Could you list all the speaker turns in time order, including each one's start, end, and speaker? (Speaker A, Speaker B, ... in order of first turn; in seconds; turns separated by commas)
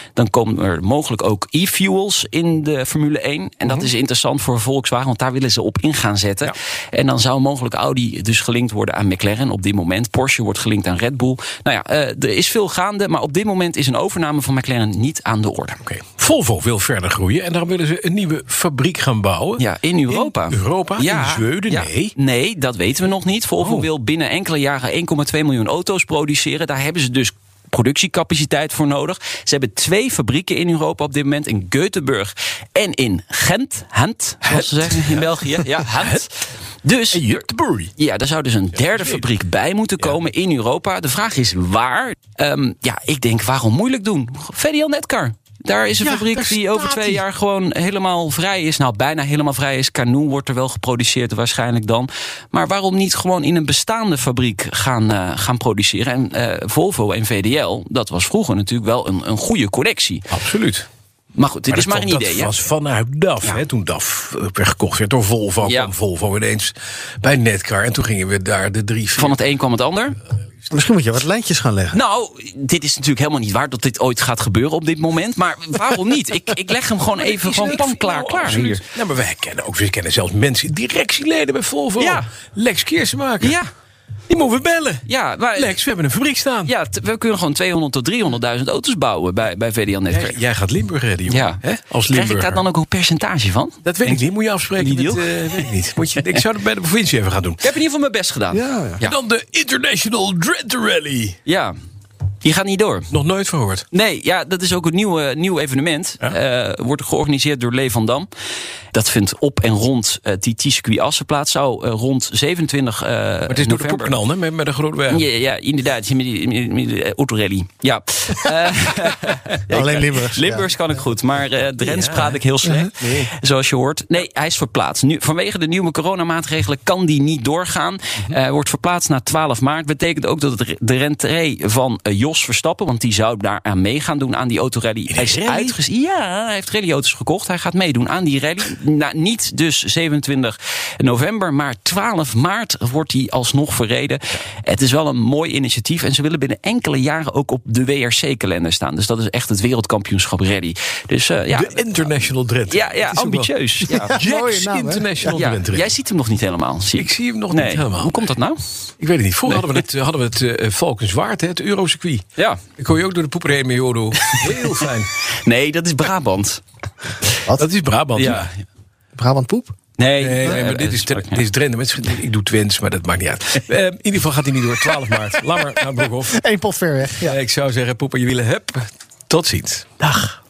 Speaker A: 0.1-15.8, Speaker B: 3.6-3.9, Speaker B: 15.8-22.1, Speaker A: 19.6-37.4, Speaker B: 23.6-23.9, Speaker B: 34.4-36.2, Speaker B: 37.1-37.9, Speaker A: 38.0-60.3, Speaker B: 38.8-39.2, Speaker B: 46.0-47.2, Speaker B: 60.3-60.9, Speaker A: 61.4-62.6, Speaker B: 61.7-69.4, Speaker A: 65.6-65.9, Speaker A: 69.2-70.2, Speaker C: 70.7-72.0, Speaker A: 71.9-78.8, Speaker B: 77.2-83.6, Speaker A: 82.0-82.3, Speaker A: 83.4-83.7, Speaker B: 84.3-86.7, Speaker A: 85.1-85.8, Speaker A: 86.7-90.4, Speaker B: 90.1-92.6, Speaker A: 91.3-96.4, Speaker B: 93.8-97.7, Speaker A: 97.6-99.1, Speaker C: 98.5-99.0, Speaker B: 99.0-101.4, Speaker A: 101.5-101.7, Speaker A: 102.4-103.1, Speaker B: 103.1-103.9, Speaker A: 103.9-108.3, Speaker A: 108.9-114.2, Speaker B: 113.5-115.3, Speaker A: 115.1-152.1, Speaker C: 119.7-120.8, Speaker B: 121.8-122.4, Speaker C: 122.6-123.2, Speaker B: 135.1-135.8, Speaker B: 151.5-155.9, Speaker A: 152.7-154.2, Speaker C: 153.9-155.4, Speaker A: 155.3-158.6, Speaker B: 156.9-158.2, Speaker B: 159.0-162.2, Speaker A: 159.5-159.8, Speaker A: 162.4-162.6, Speaker B: 162.8-165.1, Speaker A: 164.2-166.6, Speaker B: 167.5-168.5, Speaker A: 168.2-168.5, Speaker C: 169.2-169.8, Speaker A: 170.0-171.5, Speaker B: 170.2-176.4, Speaker C: 176.3-177.4, Speaker B: 177.2-180.3